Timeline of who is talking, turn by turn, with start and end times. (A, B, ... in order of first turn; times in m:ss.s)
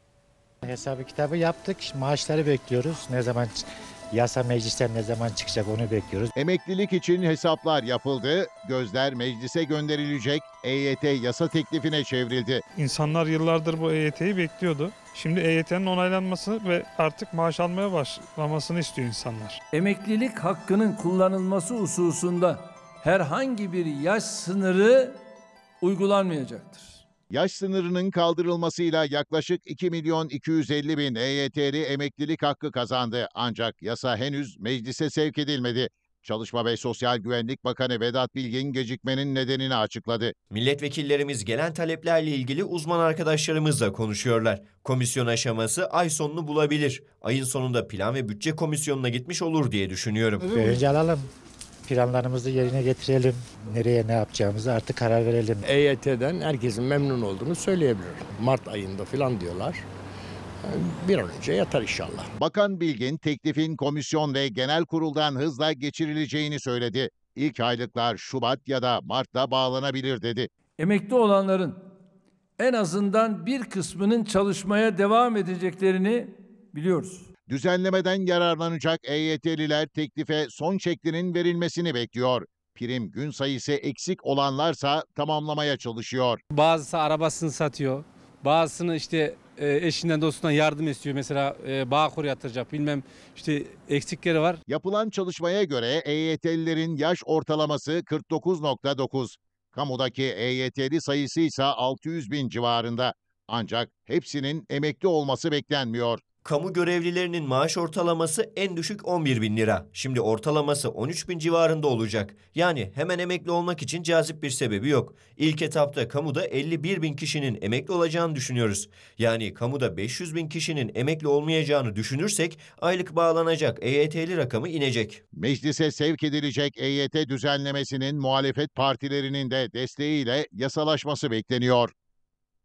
0:00.6-0:06.3 A
0:06.4-0:12.6 B
0:12.8-0:19.6 C
0:19.7-0:25.2 D
0:25.8-0:27.0 D
0:27.3-0:40.3 B
0:40.5-0:50.5 E
0:50.5-0:51.3 A
0:50.6-0:50.8 F
0:51.9-0:55.6 A
0:55.6-0:59.8 F
1:00.6-1:02.3 F
1:02.4-1:10.5 B
1:10.8-1:11.8 D
1:12.6-1:17.3 D
1:17.5-1:26.4 B
1:26.5-1:34.6 G
1:34.7-1:46.2 B
1:46.4-2:05.2 E
2:05.4-2:11.9 B